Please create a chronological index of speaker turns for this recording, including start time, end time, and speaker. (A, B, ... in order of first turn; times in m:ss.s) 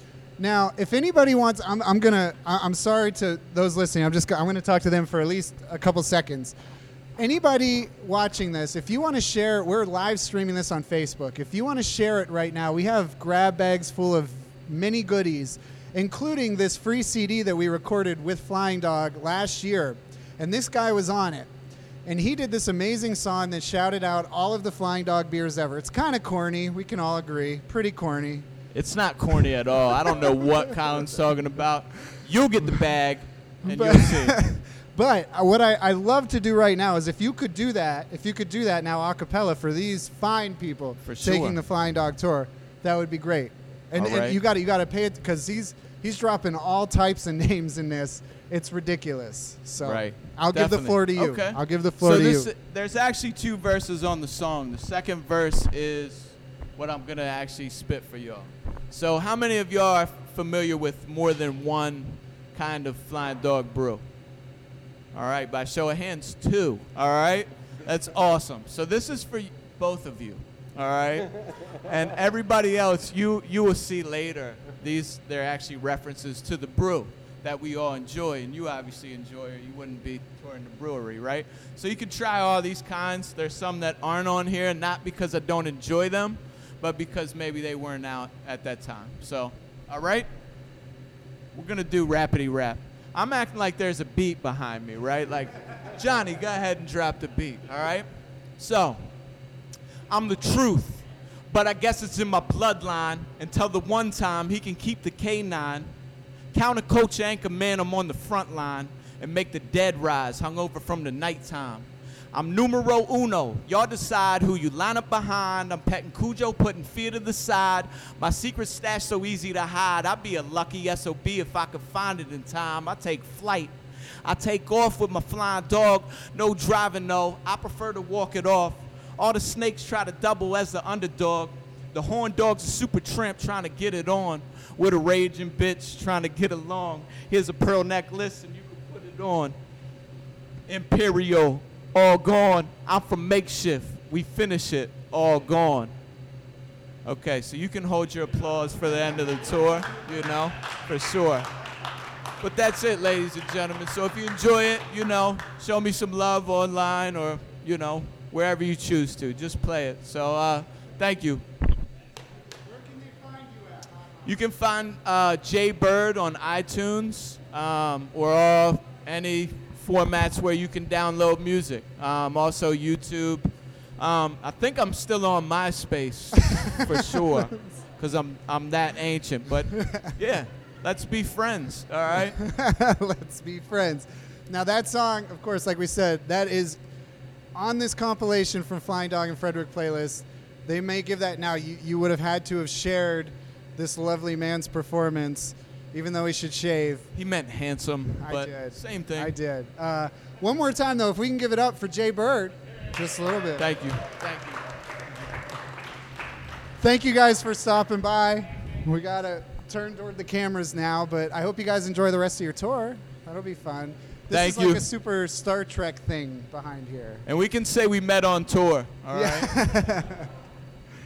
0:00.4-0:06.5 A
0:07.2-0:21.5 A
0:22.0-0:28.5 A
0:28.7-0:34.4 B
0:30.0-0:30.3 A
0:33.6-0:52.5 A
0:41.0-0:41.6 B
0:44.0-0:44.4 B
0:49.8-1:04.0 B
1:05.1-1:30.3 B
1:31.5-1:38.0 B
1:38.6-1:39.1 B
1:40.1-1:45.9 B
1:46.5-2:19.6 B
2:20.7-2:25.9 B
2:27.0-2:31.5 B
2:32.4-2:41.4 B
2:42.6-2:43.9 A
2:44.2-3:02.4 B
2:56.5-2:57.4 A
2:59.7-3:00.1 A
3:02.3-3:06.8 A
3:07.5-3:17.1 A
3:17.1-3:19.3 B
3:18.2-3:23.7 A
3:23.6-3:24.6 B
3:26.8-3:37.2 A
3:34.3-3:34.9 B
3:37.2-3:39.6 B
3:39.1-3:40.3 A